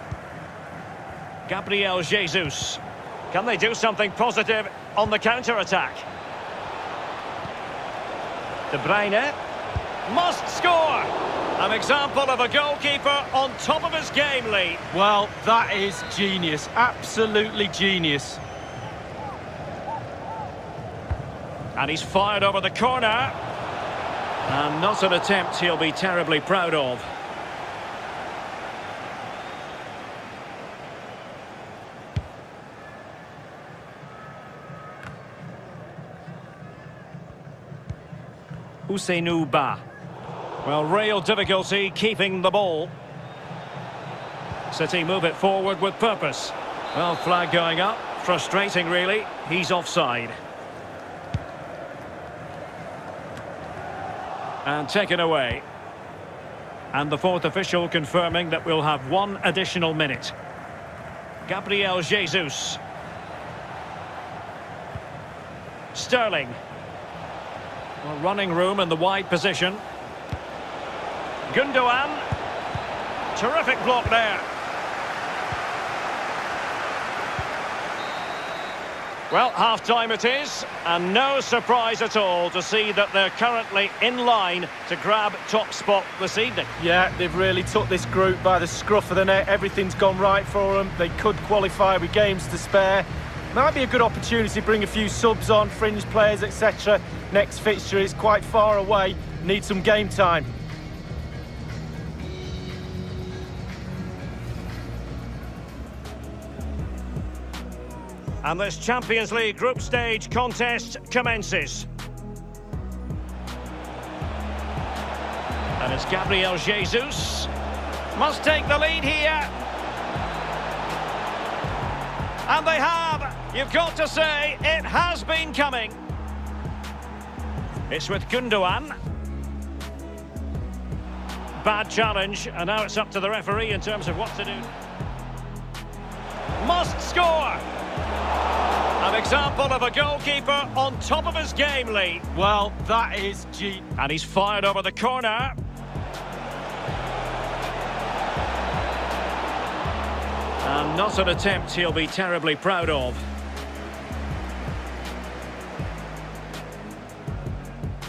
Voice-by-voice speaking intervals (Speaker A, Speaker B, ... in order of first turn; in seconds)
Speaker A: 1.5-6.1, 8.7-9.4, 10.1-14.8, 21.8-23.4, 24.5-27.1, 38.9-39.8, 40.6-42.9, 44.7-50.4, 54.6-55.6, 56.9-60.3, 61.5-62.8, 65.9-66.6, 68.0-69.8, 71.5-72.2, 73.4-74.5, 79.3-86.7, 108.4-111.9, 115.8-117.5, 118.2-119.5, 122.5-126.0, 127.9-128.9, 131.6-134.7, 136.6-137.6, 139.0-142.2, 144.0-145.6, 150.6-153.2
Speaker B: 14.9-18.4, 86.8-100.5, 142.3-143.8